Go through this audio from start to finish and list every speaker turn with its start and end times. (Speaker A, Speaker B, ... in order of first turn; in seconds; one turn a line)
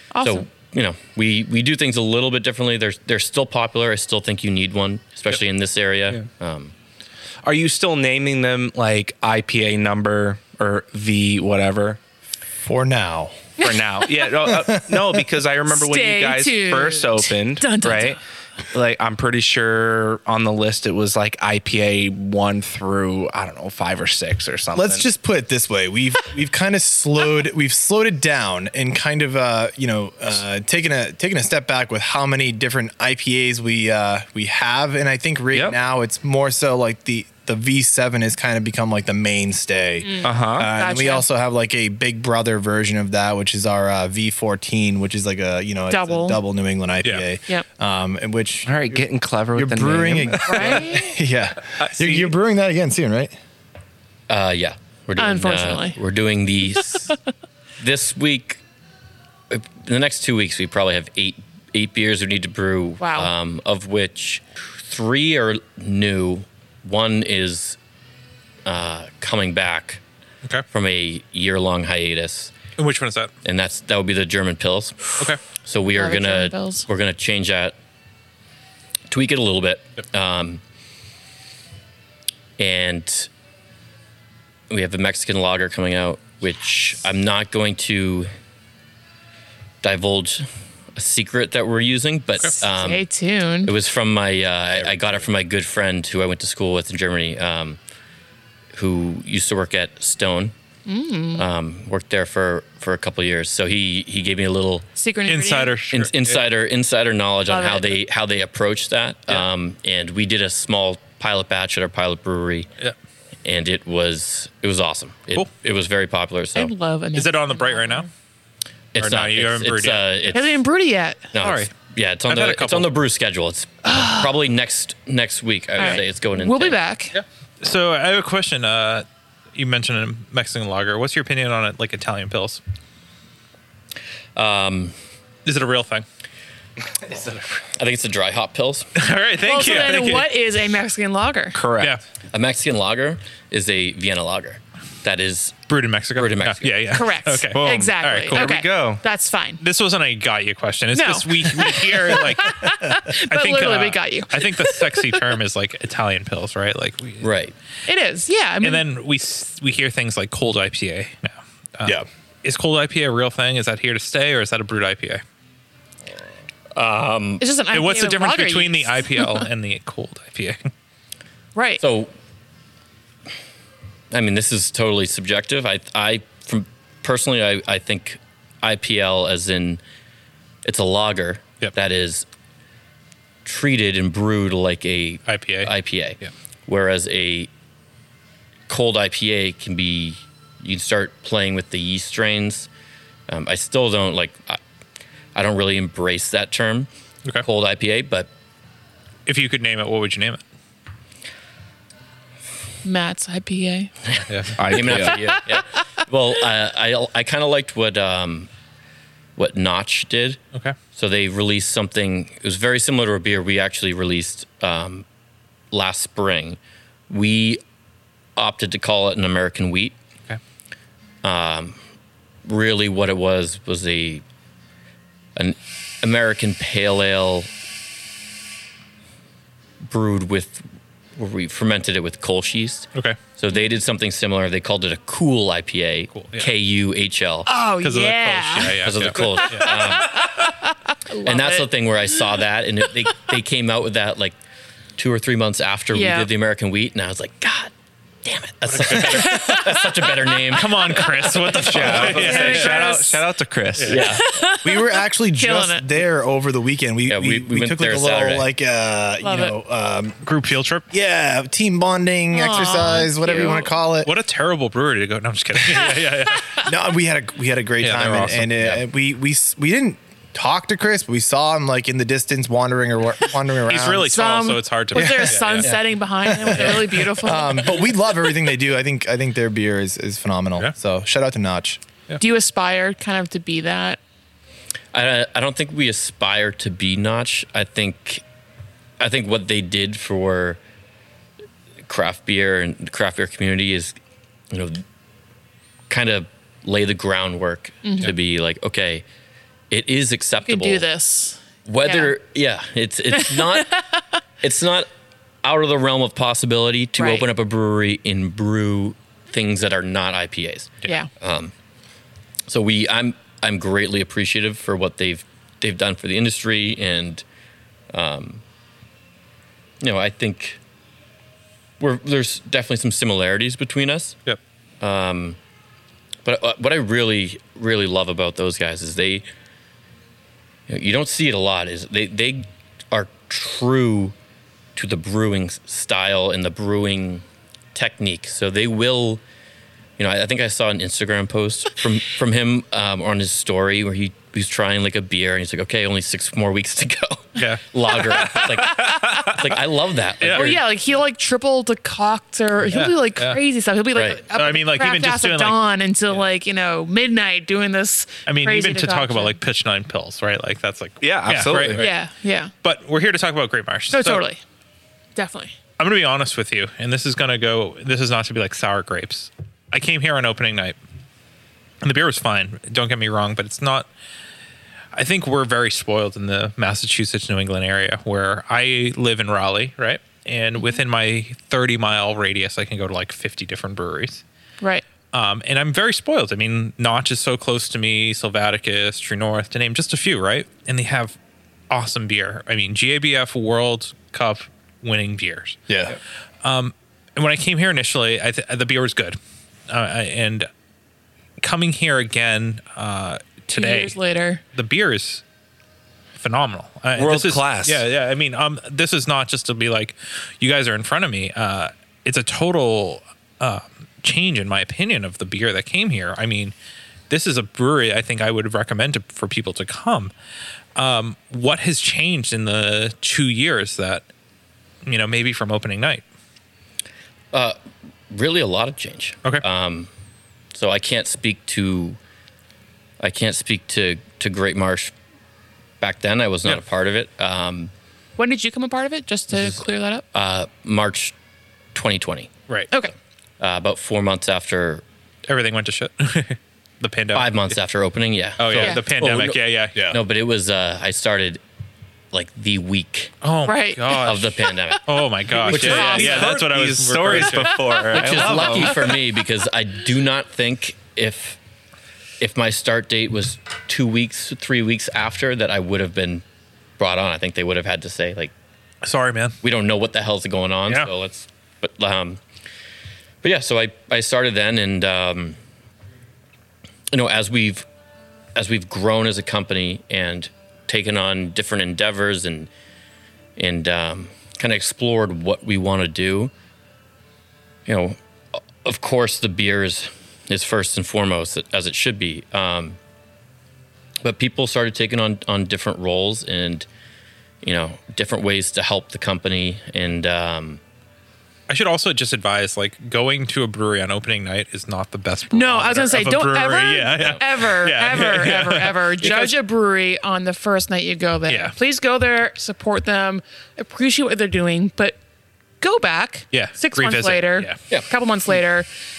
Speaker A: 0.1-0.5
Speaker B: 0.2-6.7
Speaker C: 7.4-12.0
Speaker D: 12.6-13.3
Speaker C: 13.6-18.2
Speaker A: 13.6-13.9
Speaker D: 14.5-15.2
Speaker A: 15.7-18.2
Speaker C: 18.7-25.1
Speaker D: 24.7-53.3
Speaker A: 40.0-41.2
Speaker C: 40.2-40.7
Speaker A: 45.9-46.4
Speaker C: 48.6-50.9
Speaker A: 50.5-51.1
Speaker C: 51.8-52.3
Speaker B: 54.3-57.1
Speaker A: 55.2-56.0
Speaker B: 57.8-58.6
Speaker B: 59.5-67.8
Speaker A: 63.0-63.3
Speaker B: 68.6-70.0
Speaker B: 70.7-72.5
Speaker E: 72.8-73.3
Speaker B: 73.4-77.7
Speaker A: 75.9-76.9
Speaker B: 79.1-80.6
Speaker B: 82.6-83.3
Speaker B: 84.7-88.3
Speaker B: 89.8-93.0
Speaker A: 92.7-93.7
Speaker B: 93.6-97.8
Speaker B: 98.7-100.5
Speaker A: 100.8-101.4
Speaker B: 101.3-104.9
Speaker A: 105.0-105.7
Speaker E: 105.2-106.4
Speaker B: 105.9-112.7
Speaker A: 107.5-108.0
Speaker B: 113.4-116.7
Speaker A: 116.5-118.1
Speaker E: 117.1-118.1
Speaker B: 118.9-120.6
Speaker E: 119.0-120.4
Speaker A: 120.3-121.3
Speaker B: 121.3-126.8
Speaker E: 121.4-121.7
Speaker E: 122.3-122.9
Speaker A: 123.8-124.3
Speaker A: 125.8-127.1
Speaker E: 127.1-132.6
Speaker B: 134.3-134.9
Speaker E: 135.4-136.0
Speaker B: 137.7-138.9
Speaker E: 138.9-140.3
Speaker A: 139.4-141.6
Speaker C: 141.5-142.0
Speaker B: 142.3-146.8
Speaker E: 145.7-148.4
Speaker A: 146.9-149.6
Speaker C: 147.5-149.0
Speaker E: 149.6-157.3
Speaker A: 150.9-155.2
Speaker B: 157.2-157.5
Speaker A: 157.8-158.8
Speaker E: 158.6-165.2
Speaker B: 166.7-167.4
Speaker A: 167.4-169.4
Speaker E: 167.7-170.7
Speaker A: 171.5-171.8
Speaker B: 171.8-172.1
Speaker B: 174.1-179.8
Speaker B: 180.6-182.2
Speaker B: 183.4-187.5
Speaker E: 185.3-186.3
Speaker B: 188.7-192.7
Speaker B: 193.3-194.6
Speaker B: 195.3-196.9
Speaker B: 197.4-198.3
Speaker E: 199.2-200.4
Speaker A: 202.8-203.9
Speaker B: 204.2-208.5
Speaker E: 204.3-204.7
Speaker C: 204.6-205.2
Speaker A: 205.1-205.4
Speaker B: 209.4-210.4
Speaker B: 210.9-215.0
Speaker B: 215.7-217.6
Speaker B: 218.3-219.9
Speaker B: 221.2-221.8
Speaker B: 222.4-224.2
Speaker B: 225.3-227.5
Speaker B: 229.8-237.5
Speaker E: 236.1-236.5
Speaker A: 237.5-241.7
Speaker E: 237.8-239.9
Speaker B: 238.8-240.4
Speaker B: 241.2-244.3
Speaker B: 245.0-247.7
Speaker A: 245.9-246.3
Speaker B: 248.2-251.7
Speaker E: 248.7-249.7
Speaker A: 249.1-250.1
Speaker E: 250.5-253.0
Speaker C: 251.6-254.0
Speaker A: 251.9-253.2
Speaker B: 253.8-254.3
Speaker A: 253.9-255.9
Speaker D: 254.6-260.2
Speaker B: 257.1-258.5
Speaker A: 259.2-259.5
Speaker E: 260.2-260.9
Speaker D: 260.9-264.1
Speaker A: 262.3-263.7
Speaker E: 264.0-266.6
Speaker A: 265.9-266.6
Speaker D: 266.6-274.1
Speaker E: 267.8-268.5
Speaker E: 273.7-275.7
Speaker A: 274.0-277.8
Speaker D: 274.9-275.4
Speaker D: 276.2-281.8
Speaker E: 276.5-277.1
Speaker A: 282.2-284.0
Speaker B: 284.9-288.2
Speaker B: 289.0-290.6
Speaker B: 291.9-294.0
Speaker B: 294.5-294.8
Speaker B: 295.9-299.0
Speaker A: 297.8-298.1
Speaker B: 299.7-300.8
Speaker A: 300.4-302.1
Speaker B: 301.6-303.8
Speaker A: 303.2-303.8
Speaker B: 304.4-304.9
Speaker B: 305.4-311.5
Speaker A: 307.0-307.2
Speaker B: 312.5-317.2
Speaker B: 317.9-318.4
Speaker B: 319.8-320.6
Speaker B: 321.8-324.2
Speaker B: 324.8-325.4
Speaker B: 326.2-329.3
Speaker B: 330.7-334.1
Speaker B: 334.8-339.2
Speaker B: 340.0-350.6
Speaker E: 347.4-349.3
Speaker A: 348.1-349.5
Speaker E: 350.2-350.6
Speaker A: 350.3-359.4
Speaker E: 352.6-353.4
Speaker B: 353.9-354.2
Speaker E: 354.3-356.2
Speaker E: 358.2-361.9
Speaker C: 361.0-361.9
Speaker A: 361.8-362.5
Speaker E: 362.6-364.2
Speaker A: 363.9-364.4
Speaker A: 365.1-365.5
Speaker E: 365.8-370.8
Speaker E: 371.8-373.9
Speaker E: 374.9-384.2
Speaker E: 385.1-391.1
Speaker E: 391.7-395.6
Speaker D: 395.7-395.9
Speaker E: 396.4-399.2
Speaker E: 399.7-400.5
Speaker E: 401.4-404.0
Speaker A: 403.5-404.4
Speaker E: 404.5-405.2
Speaker E: 406.1-416.5
Speaker C: 406.9-407.8
Speaker E: 417.1-420.1
Speaker E: 420.8-424.0
Speaker E: 424.8-426.0
Speaker B: 427.3-427.6
Speaker B: 428.1-429.9
Speaker B: 430.5-432.0
Speaker B: 433.0-434.9
Speaker B: 435.8-437.7
Speaker A: 438.2-440.0
Speaker B: 439.3-441.1
Speaker B: 441.7-442.3
Speaker B: 443.4-444.8
Speaker E: 445.3-447.5
Speaker B: 447.1-451.4
Speaker E: 448.4-449.8
Speaker A: 448.5-448.8
Speaker B: 452.1-453.1
Speaker E: 453.2-457.8
Speaker A: 453.4-454.1
Speaker B: 454.0-454.8
Speaker A: 455.3-456.4
Speaker C: 455.4-458.8
Speaker A: 457.4-458.1
Speaker B: 457.9-461.4
Speaker B: 462.2-466.2
Speaker B: 466.8-468.3
Speaker E: 468.8-469.4
Speaker B: 469.4-472.2
Speaker B: 473.2-475.4
Speaker B: 476.9-477.6
Speaker B: 478.3-482.5
Speaker B: 483.4-486.3
Speaker B: 487.6-492.8
Speaker B: 494.0-496.6
Speaker B: 497.4-500.6
Speaker E: 501.5-509.3
Speaker A: 505.3-515.0
Speaker E: 511.3-511.5
Speaker A: 515.6-518.7
Speaker E: 516.3-517.6